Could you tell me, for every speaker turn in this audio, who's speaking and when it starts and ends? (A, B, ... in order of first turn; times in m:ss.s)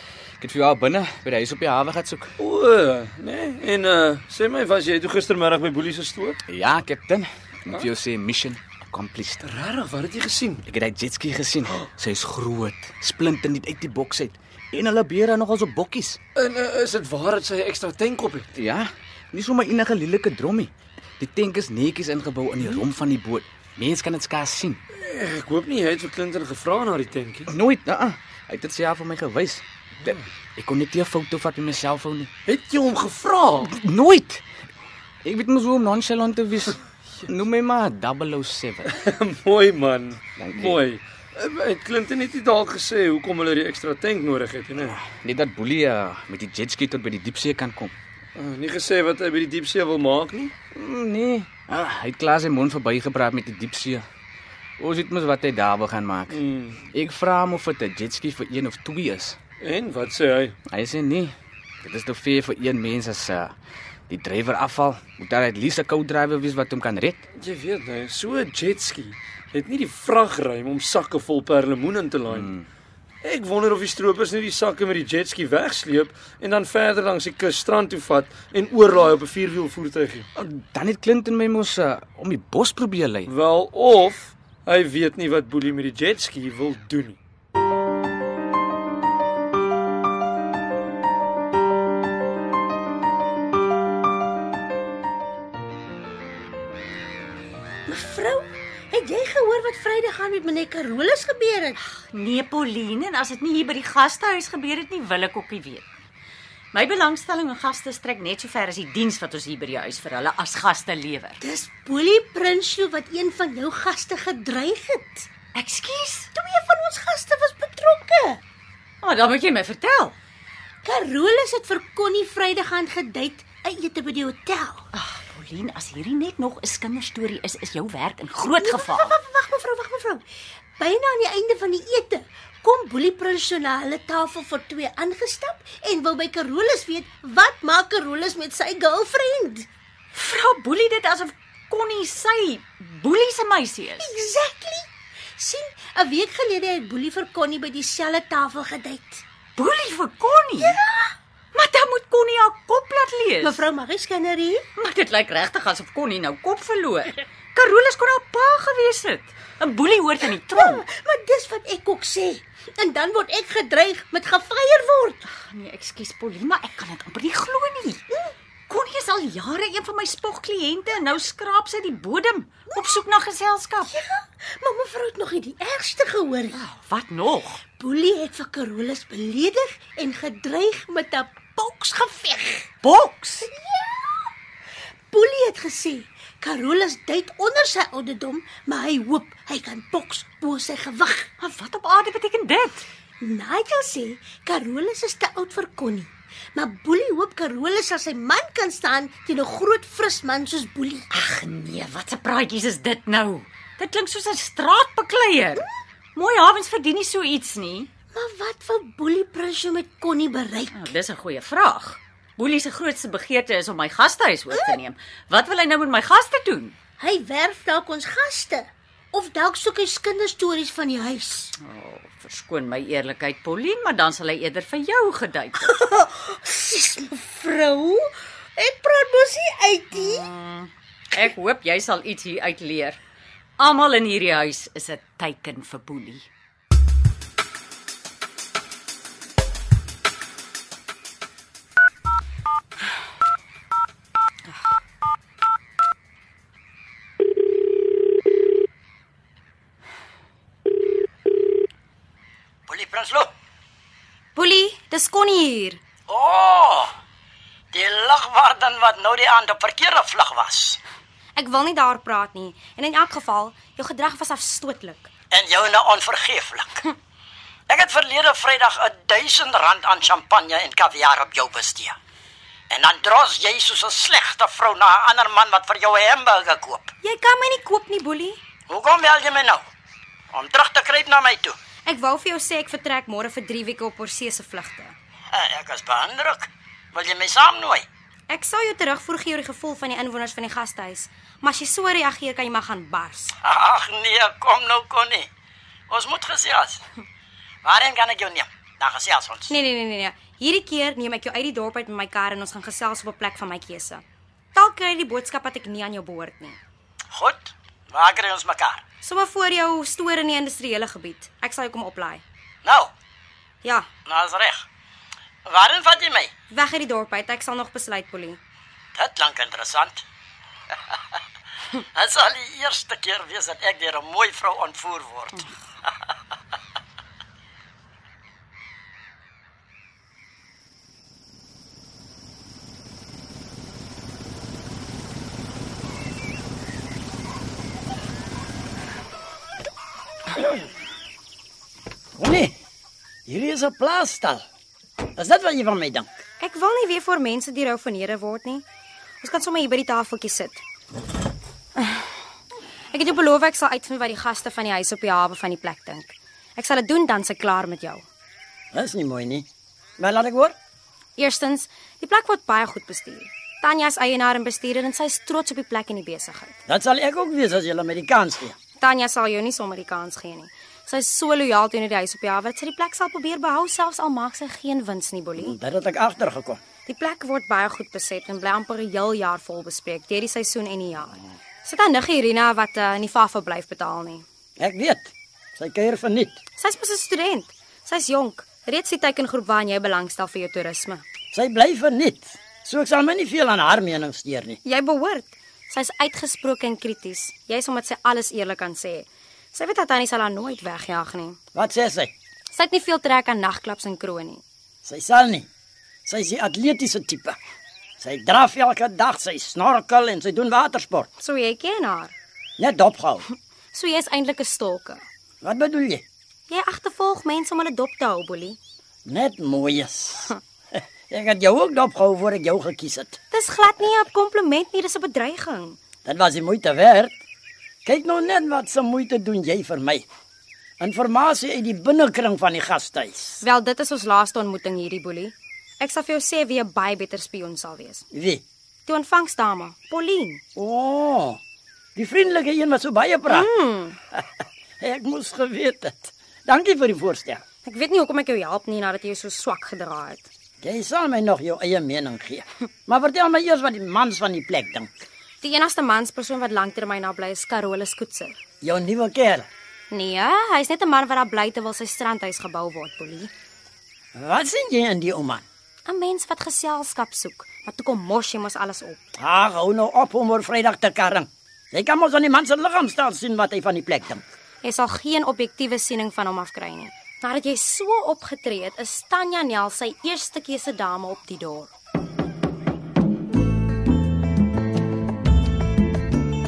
0:00.4-0:02.3 A
0:02.4-0:06.4 B
0:06.5-0:09.4 A
0:09.4-0:10.6 B
0:10.7-0:16.2 A
0:16.4-0:18.5 B
0:18.6-0:24.8 A
0:25.0-0:27.5 B
0:27.5-0:32.3 A
0:32.5-0:33.7 B
0:33.7-0:34.4 A
0:35.2-0:38.9 A
0:39.0-0:45.0 B
0:40.4-0:40.8 A
0:44.8-0:47.9 A
0:48.4-0:50.5 B
0:50.7-0:54.0 A
0:54.8-0:59.4 A
0:56.3-0:56.8 B
0:59.6-1:00.6 B
1:00.7-1:03.5 A
1:04.1-1:07.2 A
1:07.3-1:12.5 B
1:12.3-1:12.6 A
1:13.2-1:20.3 B
1:20.4-1:23.3 A
1:23.3-1:27.2 B
1:37.9-1:41.8 C
1:42.0-1:45.9 D
1:46.7-1:51.4 D
1:51.4-1:55.3 C
1:55.5-1:56.3 D
1:56.3-1:58.4 C
1:59.0-2:00.2 D
2:00.8-2:04.9 C
2:04.9-2:09.2 D
2:08.6-2:10.2 C
2:10.8-2:19.7 C
2:20.1-2:24.1 D
2:24.0-2:29.2 C
2:29.6-2:30.8 D
2:30.6-2:31.2 C
2:31.5-2:33.6 D
2:33.4-2:34.7 C
2:34.8-2:40.8 D
2:40.3-2:45.2 C
2:45.3-2:48.1 D
2:48.7-2:53.9 D
2:52.7-2:53.0 C
2:53.8-2:56.6 C
2:56.5-2:57.6 D
2:57.8-3:02.7 C
3:02.8-3:03.5 D
3:03.4-3:04.3 C
3:05.1-3:11.3 C
3:11.4-3:12.8 D
3:13.2-3:21.0 C
3:21.1-3:27.9 D
3:28.1-3:30.9 C
3:30.7-3:36.8 D
3:37.0-3:41.5 C
3:41.6-3:45.6 D
3:45.6-3:50.3 C
3:49.9-3:53.0 D
3:53.6-3:56.3 D
4:12.7-4:13.3 E
4:14.4-4:15.8 F
4:16.1-4:16.9 E
4:17.7-4:20.8 E
4:21.4-4:25.1 F
4:25.3-4:26.8 E
4:27.7-4:32.0 E
4:32.7-4:36.9 E
4:37.0-4:38.4 F
4:38.7-4:39.6 E
4:40.3-4:41.6 E
4:41.8-4:45.0 F
4:45.3-4:47.8 E
4:48.3-4:53.4 F
4:53.4-4:55.3 E
4:55.9-4:56.8 E
4:57.6-4:59.6 E
4:59.5-5:06.6 F
5:07.1-5:08.8 E
5:09.0-5:12.2 F
5:12.6-5:12.9 E
5:14.1-5:14.6 E
5:15.5-5:16.3 E
5:16.5-5:18.4 F
5:19.0-5:20.0 E
5:21.9-5:25.4 E
5:42.2-5:42.5 E
5:43.3-5:44.4 E
5:45.2-5:46.1 E
5:46.4-5:48.6 F
5:49.2-5:50.6 F
5:52.9-5:58.1 F
5:58.7-5:59.5 E
6:00.0-6:00.6 E
6:01.2-6:06.6 F
6:06.7-6:08.6 E
6:08.8-6:15.6 F
6:15.4-6:16.6 E
6:16.9-6:24.2 F
6:24.6-6:26.4 E
6:26.6-6:31.0 F
6:31.3-6:34.6 E
6:34.6-6:41.4 F
6:41.5-6:42.1 E
6:42.5-6:44.4 F
6:44.8-6:45.5 E
6:46.1-6:47.4 E
6:48.0-6:51.1 E
6:51.2-6:52.1 F
6:52.6-6:53.2 E
6:53.7-6:55.0 F
6:55.4-6:56.0 E
6:56.5-6:58.6 F
6:59.1-7:00.4 E
7:01.1-7:03.2 E
7:03.3-7:05.8 F
7:06.0-7:07.2 E
7:07.8-7:10.0 E
7:10.8-7:13.4 E
7:13.4-7:18.1 F
7:18.1-7:18.4 E
7:18.9-7:20.4 F
7:20.6-7:21.4 E
7:22.0-7:23.5 E
7:23.3-7:24.0 F
7:24.8-7:27.4 E
7:27.6-7:30.3 F
7:30.6-7:34.9 E
7:35.4-7:38.4 F
7:38.6-7:39.5 E
7:39.9-7:43.3 F
7:44.2-7:45.4 E
7:45.9-7:49.0 F
7:49.2-7:54.2 E
7:54.6-8:01.7 F